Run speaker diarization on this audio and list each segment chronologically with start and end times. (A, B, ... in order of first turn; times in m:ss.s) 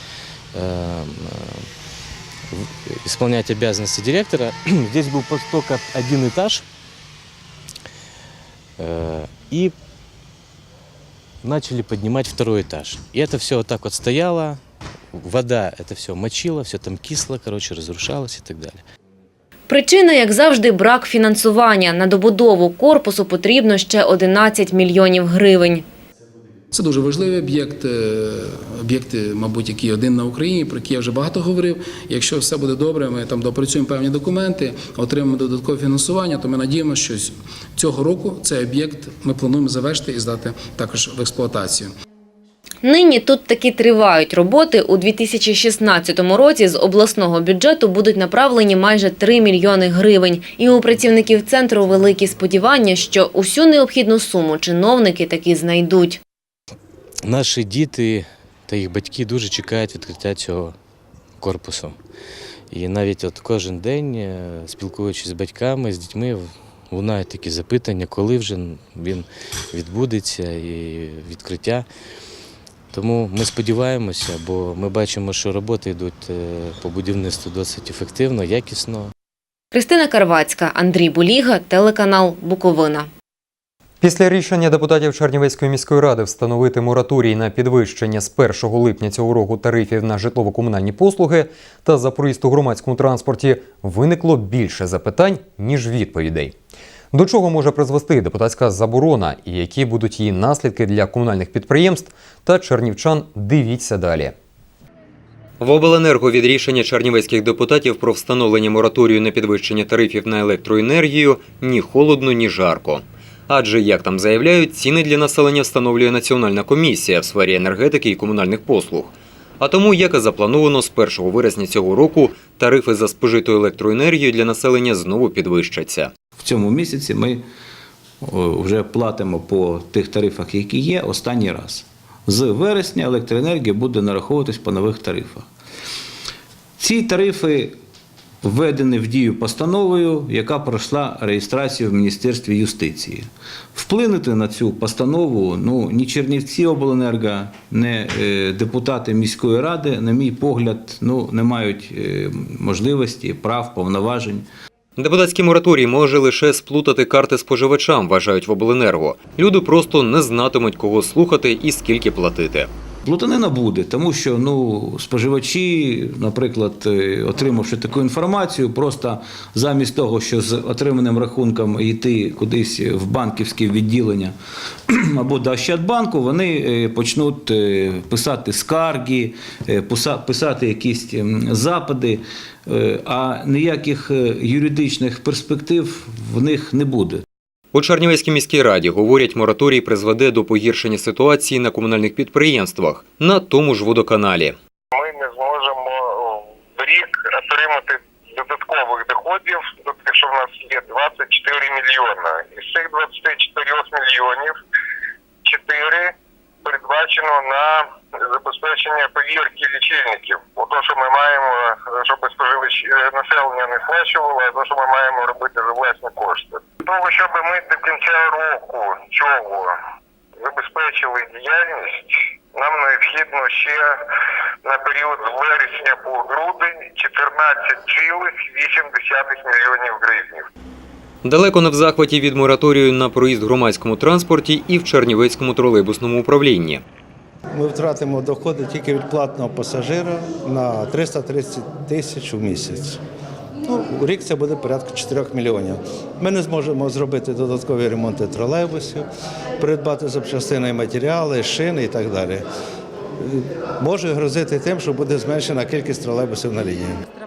0:00.5-0:01.7 A
0:02.5-0:06.6 A
0:08.8-0:09.7 A
0:11.4-0:14.6 A
0:15.1-0:18.8 A
0:19.7-0:25.8 B
0:26.8-0:27.9 C
0:28.9-0:41.8 C
0:42.8-0:56.2 B
0:57.2-1:00.8 A
1:01.4-1:02.0 A
1:02.7-1:11.8 A
1:12.9-1:19.1 A
1:19.7-1:23.1 B
1:24.0-1:36.5 D
1:37.1-1:44.3 D
1:45.6-2:06.1 D
2:06.4-2:07.4 E
2:08.3-2:15.4 E
2:16.8-2:17.7 E
2:18.5-2:23.2 E
2:23.7-2:34.5 E
2:35.0-2:42.7 D
2:43.0-2:54.3 E
2:55.9-3:02.2 E
3:02.7-3:07.2 E
3:07.7-3:14.6 D
3:14.9-3:24.6 F
3:25.4-3:26.1 F
3:26.6-3:39.7 F
3:40.4-3:43.9 F
3:44.6-3:50.4 F
3:51.2-3:56.8 D
3:57.5-4:03.0 G
4:03.7-4:09.1 G
4:09.6-4:12.4 G
4:13.2-4:17.0 G